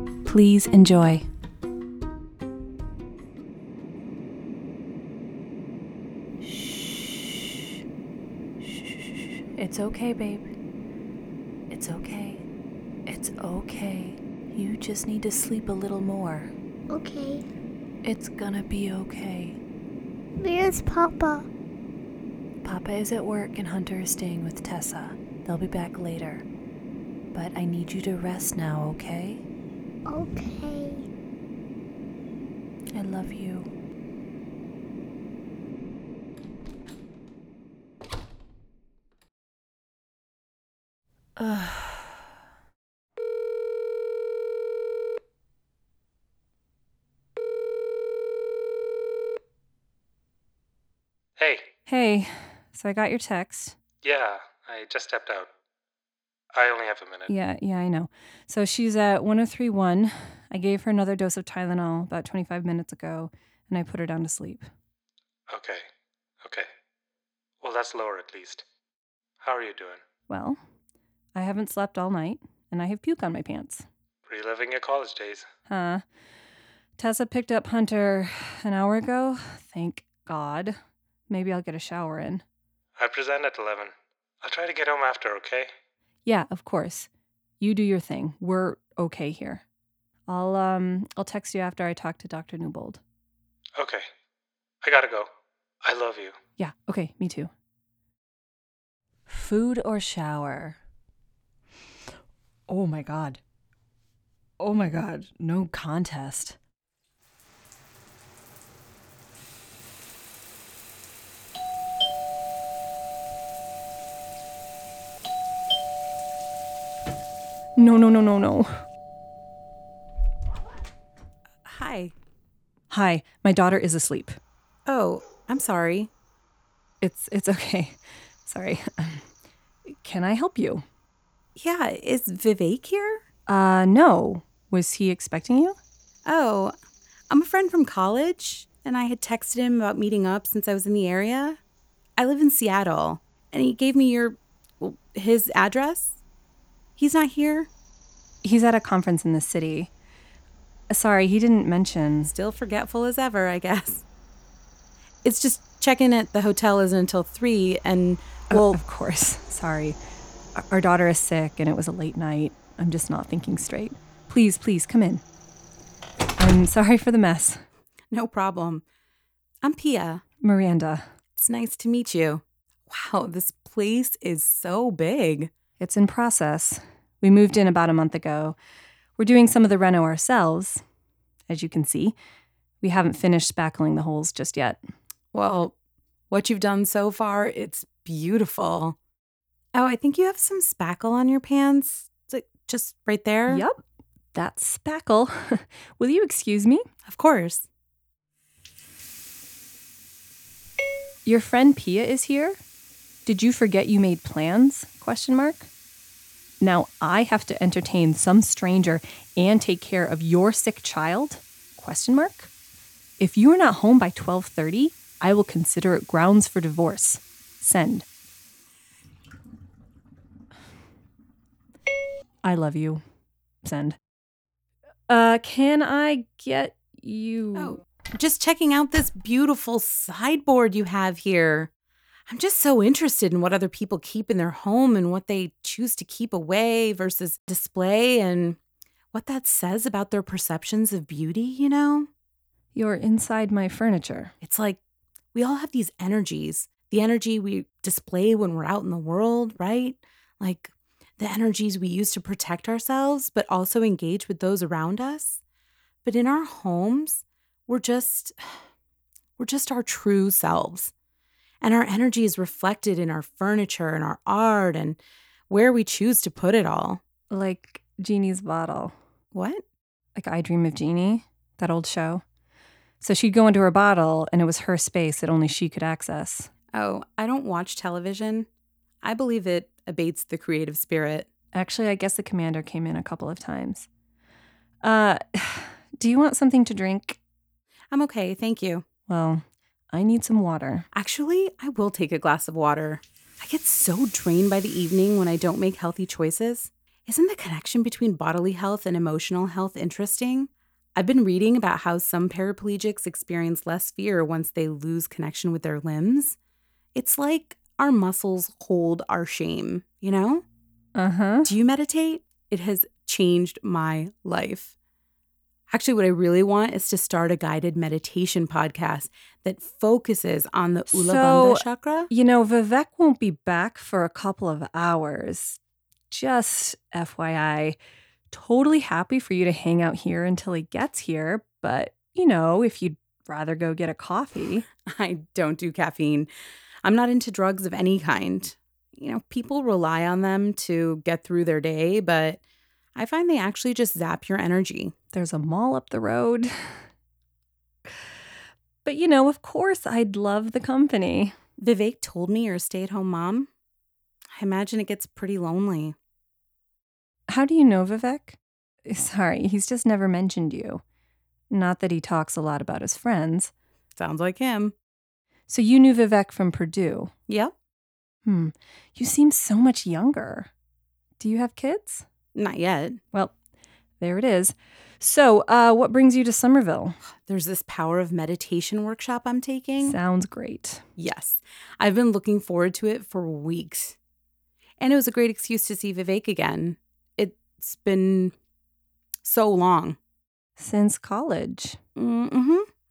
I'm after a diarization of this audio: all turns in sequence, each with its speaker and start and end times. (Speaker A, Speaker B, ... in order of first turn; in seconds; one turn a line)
Speaker A: 0.2-1.2
Speaker A: 6.4-7.5
Speaker A: 8.6-9.0
Speaker A: 9.6-10.5
Speaker A: 11.7-12.4
Speaker A: 13.1-16.5
Speaker B: 16.9-17.4
Speaker A: 18.0-19.6
Speaker B: 20.4-21.5
Speaker A: 22.6-26.4
Speaker A: 27.3-29.4
Speaker B: 30.1-31.1
Speaker A: 32.9-33.7
Speaker A: 41.4-42.1
Speaker C: 51.4-51.7
Speaker D: 51.9-53.8
Speaker C: 54.0-55.5
Speaker C: 56.5-57.3
Speaker D: 57.3-64.7
Speaker C: 65.5-65.9
Speaker C: 66.4-66.7
Speaker C: 67.6-68.7
Speaker C: 69.4-70.0
Speaker D: 70.3-70.6
Speaker D: 71.3-73.8
Speaker C: 74.3-75.5
Speaker D: 75.7-76.0
Speaker D: 77.0-80.8
Speaker D: 81.3-82.4
Speaker C: 83.0-85.7
Speaker D: 86.2-87.1
Speaker D: 87.6-89.6
Speaker D: 90.3-93.0
Speaker C: 93.8-94.1
Speaker C: 94.8-95.3
Speaker C: 95.8-96.4
Speaker D: 96.6-97.5
Speaker A: 99.3-100.8
Speaker A: 102.7-103.4
Speaker A: 104.6-106.5
Speaker D: 117.8-118.8
Speaker E: 121.6-122.1
Speaker D: 122.9-124.3
Speaker E: 124.8-126.1
Speaker D: 127.0-129.2
Speaker D: 129.9-130.8
Speaker E: 131.6-133.2
Speaker D: 133.5-135.8
Speaker E: 136.2-136.7
Speaker E: 137.3-141.6
Speaker E: 142.2-146.2
Speaker E: 147.0-147.7
Speaker D: 148.4-149.9
Speaker D: 150.9-152.3
Speaker E: 152.2-154.0
Speaker E: 155.2-158.8
Speaker D: 158.5-160.0
Speaker D: 160.6-165.2
Speaker D: 166.4-167.6
Speaker E: 168.1-168.8
Speaker E: 169.6-170.2
Speaker D: 170.4-171.1
Speaker E: 171.4-175.5
Speaker D: 175.8-178.6
Speaker D: 179.2-180.8
Speaker D: 181.5-182.2
Speaker D: 182.8-184.8
Speaker E: 185.3-185.7
Speaker E: 186.3-189.0
Speaker E: 189.7-193.6
Speaker D: 193.5-193.8
Speaker D: 194.3-196.8
Speaker E: 197.1-197.7
Speaker D: 201.2-202.6
Speaker D: 203.2-205.7
Speaker D: 206.6-212.5
Speaker D: 213.2-218.1
Speaker D: 222.4-223.0
Speaker D: 223.6-224.0
Speaker D: 225.1-227.8
Speaker E: 227.6-231.7
Speaker E: 232.3-238.6
Speaker E: 239.1-242.1
Speaker D: 242.7-244.3
Speaker E: 244.4-244.8
Speaker E: 245.3-255.4
Speaker E: 256.0-258.3
Speaker E: 259.4-260.9
Speaker E: 261.6-265.0
Speaker E: 265.5-267.0
Speaker D: 267.3-268.9
Speaker E: 269.3-269.6
Speaker D: 270.1-272.2
Speaker D: 273.0-276.5
Speaker E: 276.7-278.5
Speaker E: 279.0-281.3
Speaker D: 281.5-283.9
Speaker D: 284.8-287.2
Speaker E: 287.9-288.8
Speaker D: 289.1-290.9
Speaker E: 290.9-306.4
Speaker E: 306.9-310.4
Speaker D: 310.9-311.5
Speaker E: 311.4-314.7
Speaker E: 315.7-322.1
Speaker D: 320.9-325.6
Speaker D: 326.1-327.8
Speaker D: 328.3-334.6
Speaker E: 334.8-336.3
Speaker E: 336.8-342.4
Speaker E: 342.9-344.9
Speaker D: 345.1-346.8
Speaker D: 348.8-351.4
Speaker E: 351.6-353.5
Speaker E: 354.3-355.9
Speaker D: 357.3-360.8
Speaker D: 361.5-363.5
Speaker E: 364.0-364.7
Speaker D: 365.5-367.1
Speaker E: 367.3-367.5
Speaker D: 368.2-370.5
Speaker D: 371.2-372.0
Speaker E: 372.3-373.0
Speaker D: 374.0-377.0
Speaker E: 377.2-380.0
Speaker D: 379.8-380.8
Speaker E: 381.0-384.0
Speaker E: 384.8-388.3
Speaker E: 389.2-390.0
Speaker D: 390.6-391.8
Speaker E: 392.0-392.7